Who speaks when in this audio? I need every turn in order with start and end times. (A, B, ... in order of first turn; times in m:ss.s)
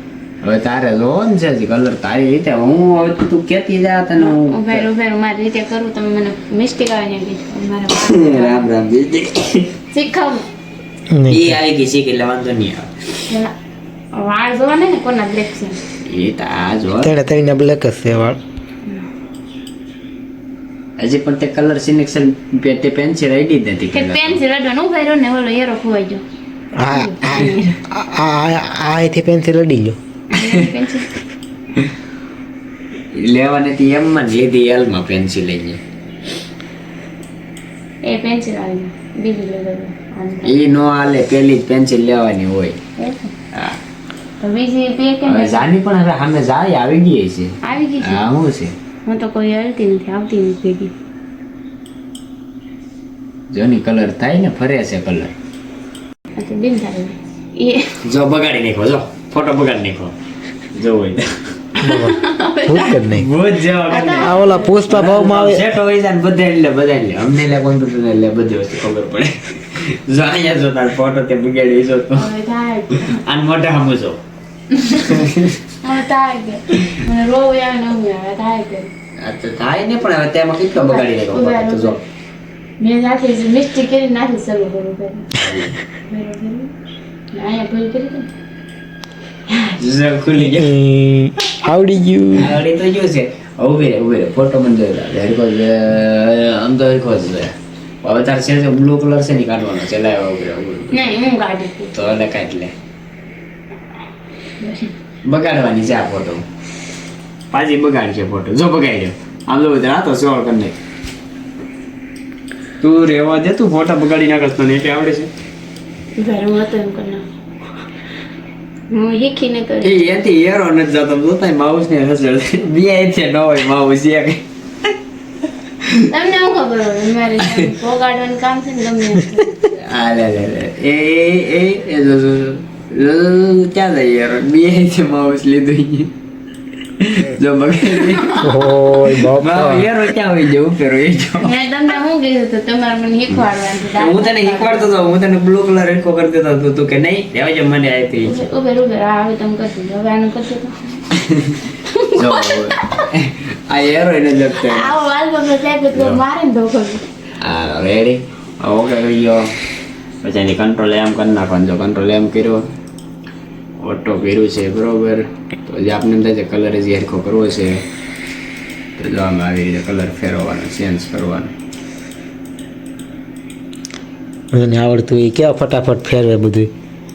0:00.4-0:04.9 A
0:04.2-0:08.7 B
0:07.9-0:09.7 A
0:09.9-0:10.5 B
0:11.1-0:11.5 C
0:11.2-0:13.0 A
0:14.2-0:15.8 B
0:16.0-0:17.2 A
0:17.0-0:18.4 C
0:21.0-0:24.4 A
0:23.9-0:26.2 B
0:26.8-0:30.0 C
0:26.8-0:27.8 B
0:30.3-0:31.1 B
0:33.1-0:35.8 A
0:38.0-0:40.5 B
0:40.4-0:42.8 A
0:43.0-0:43.3 B
0:43.5-0:43.8 A
0:44.4-0:45.6 B
0:45.3-0:48.7 A
0:47.6-0:48.2 B
0:49.1-0:50.9 B
0:53.5-0:55.3 A
0:56.4-0:58.0 B
0:58.0-1:00.2 A
1:00.7-1:01.8 A
1:01.8-1:03.1 B
1:01.8-1:03.3 C
1:03.1-1:12.3 A
1:03.9-1:04.9 B
1:04.2-1:05.6 C
1:12.1-1:13.2 B
1:12.9-1:14.2 A
1:14.7-1:15.3 B
1:14.9-1:15.6 A
1:15.8-1:18.9 B
1:19.2-1:22.0 A
1:20.8-1:22.0 B
1:22.8-1:25.4 B
1:25.4-1:25.8 A
1:26.1-1:26.7 B
1:27.3-1:28.3 B
1:29.5-1:29.8 B
1:29.8-1:30.8 A
1:30.5-1:32.6 C
1:32.4-1:41.1 A
1:40.9-1:41.9 B
1:41.9-1:42.7 A
1:44.6-1:44.9 B
1:45.2-1:46.4 A
1:47.5-1:50.8 A
1:52.8-1:55.3 A
1:56.2-1:57.2 B
1:58.9-2:00.1 B
1:59.8-2:04.9 A
2:05.8-2:06.1 A
2:06.0-2:09.8 B
2:07.4-2:07.7 A
2:09.7-2:16.1 A
2:17.0-2:18.5 A
2:18.4-2:19.9 C
2:19.1-2:21.6 A
2:21.4-2:24.9 B
2:23.9-2:28.4 A
2:28.2-2:31.0 B
2:31.1-2:35.0 A
2:31.9-2:33.1 B
2:34.5-2:37.0 B
2:35.9-2:36.2 A
2:37.4-2:39.5 A
2:40.2-2:42.7 A
2:43.8-2:47.8 A
2:49.0-2:51.5 A
2:54.5-2:56.7 C